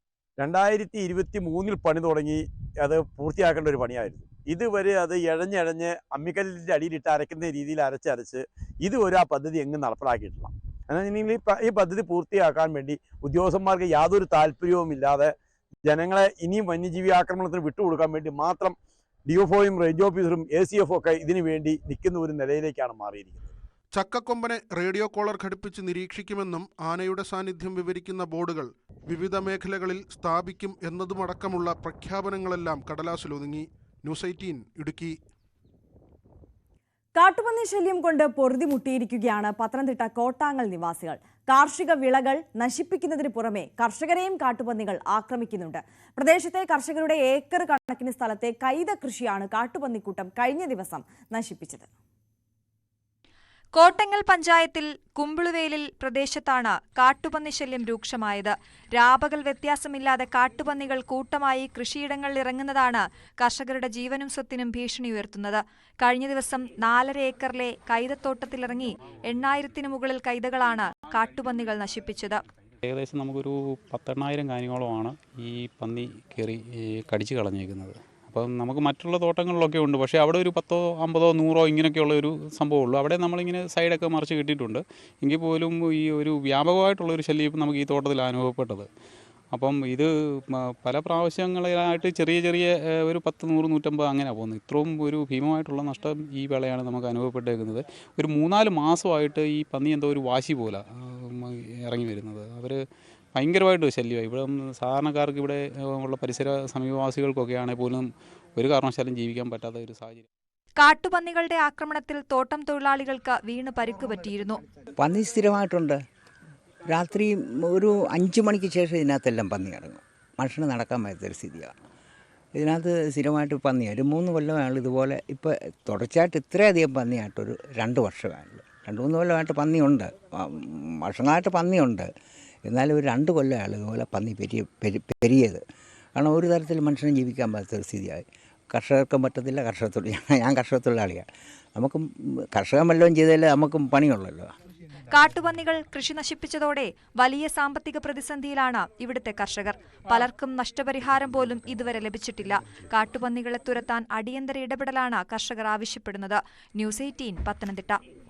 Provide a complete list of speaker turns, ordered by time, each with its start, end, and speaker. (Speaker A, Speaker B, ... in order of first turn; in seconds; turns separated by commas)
Speaker A: 0.4-15.3, Speaker A: 15.8-18.7, Speaker A: 19.3-23.5, Speaker B: 23.9-35.1, Speaker C: 37.1-51.9, Speaker D: 53.7-72.4, Speaker E: 72.8-88.9, Speaker E: 89.5-102.8, Speaker E: 103.3-110.2, Speaker D: 110.8-114.6, Speaker F: 115.0-116.0, Speaker F: 116.9-121.7, Speaker F: 122.5-132.1, Speaker F: 132.7-135.6, Speaker F: 136.2-144.5, Speaker D: 145.1-158.0